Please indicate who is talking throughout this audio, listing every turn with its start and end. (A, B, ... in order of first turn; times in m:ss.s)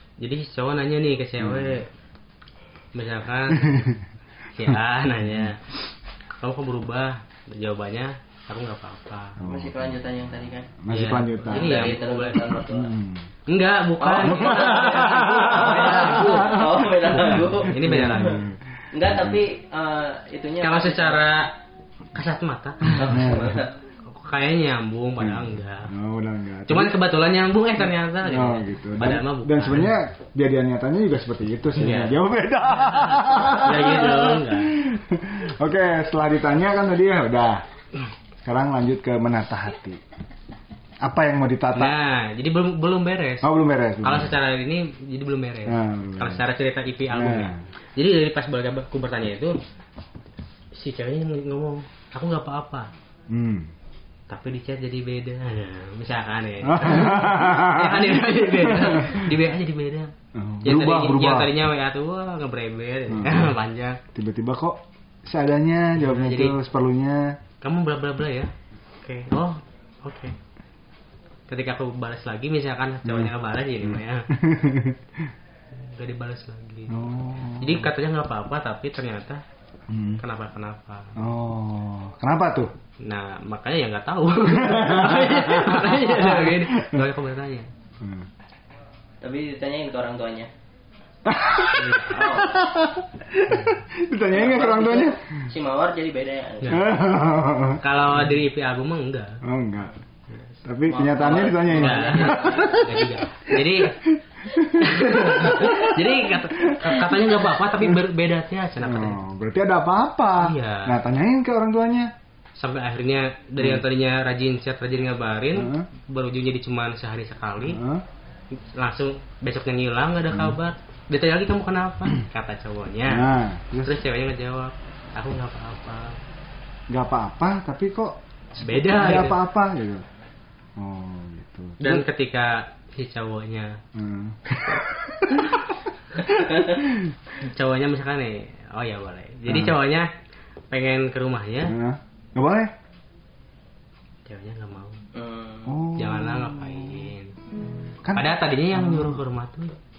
0:00.2-0:01.9 A
0:01.4-0:01.8 B
0:02.9-0:04.0 A
0:03.5-0:04.0 B
0:04.5-0:05.6 A
0:06.4-0:09.4 A
0:09.4-0:10.0 B
0:09.4-0:10.8 C
0:10.8-0:13.3 B
0:10.9-0:12.6 A
0:11.4-0:12.9 C
0:13.5-0:18.4 A
0:14.0-0:18.4 C
0:14.2-0:19.4 B
0:18.9-0:21.2 C
0:20.6-0:21.5 A
0:22.1-0:25.9 A
0:22.9-0:23.7 C
0:23.0-0:23.6 B
0:25.2-0:27.0 B
0:26.7-0:30.0 A
0:28.2-0:37.6 B
0:31.8-0:34.7 A
0:38.4-0:40.0 B
0:41.0-0:42.0 B
0:41.7-0:43.5 A
0:43.4-0:44.4 B
0:44.0-0:49.5 A
0:45.7-0:46.4 B
0:47.1-0:47.6 B
0:50.7-0:52.9 A
0:53.3-0:53.7 B
0:54.3-1:00.1 A
0:56.6-0:59.3 B
1:00.3-1:01.5 B
1:00.6-1:04.0 A
1:03.1-1:03.6 B
1:04.1-1:07.4 B
1:05.9-1:06.6 A
1:07.6-1:08.5 A
1:09.0-1:10.3 A
1:11.5-1:14.3 A
1:13.0-1:15.3 B
1:15.7-1:19.4 A
1:16.9-1:17.9 B
1:19.9-1:20.2 B
1:20.2-1:21.3 A
1:21.2-1:22.7 B
1:23.0-1:27.7 A
1:24.4-1:27.1 B
1:28.0-1:28.3 B
1:29.2-1:30.5 C
1:31.2-1:35.2 B
1:31.7-1:32.2 A
1:31.9-1:32.6 C
1:33.5-1:33.8 A
1:34.3-1:36.8 C
1:36.6-1:37.0 A
1:36.7-1:38.3 B
1:37.8-1:39.4 A
1:39.4-1:40.0 B
1:40.6-1:48.0 B
1:40.9-1:42.8 C
1:41.7-1:44.0 A
1:44.6-1:49.2 A
1:48.8-1:52.1 B
1:50.4-1:51.0 A
1:52.6-1:57.8 A
1:53.6-1:53.8 B
1:55.5-1:55.9 B
1:57.6-1:58.0 B
1:58.7-2:03.3 A
2:00.3-2:00.6 B
2:03.1-2:04.0 B
2:03.8-2:06.2 A
2:06.9-2:10.0 B
2:08.6-2:09.4 A
2:10.8-2:12.1 B
2:11.8-2:13.8 A
2:13.9-2:17.1 B
2:16.2-2:16.8 C
2:17.4-2:20.1 A
2:19.4-2:19.8 B
2:20.7-2:21.8 A
2:21.6-2:22.7 B
2:24.2-2:25.0 A
2:25.1-2:25.7 C
2:25.6-2:27.1 B
2:25.9-2:27.3 A
2:28.0-2:29.2 B
2:28.1-2:29.7 A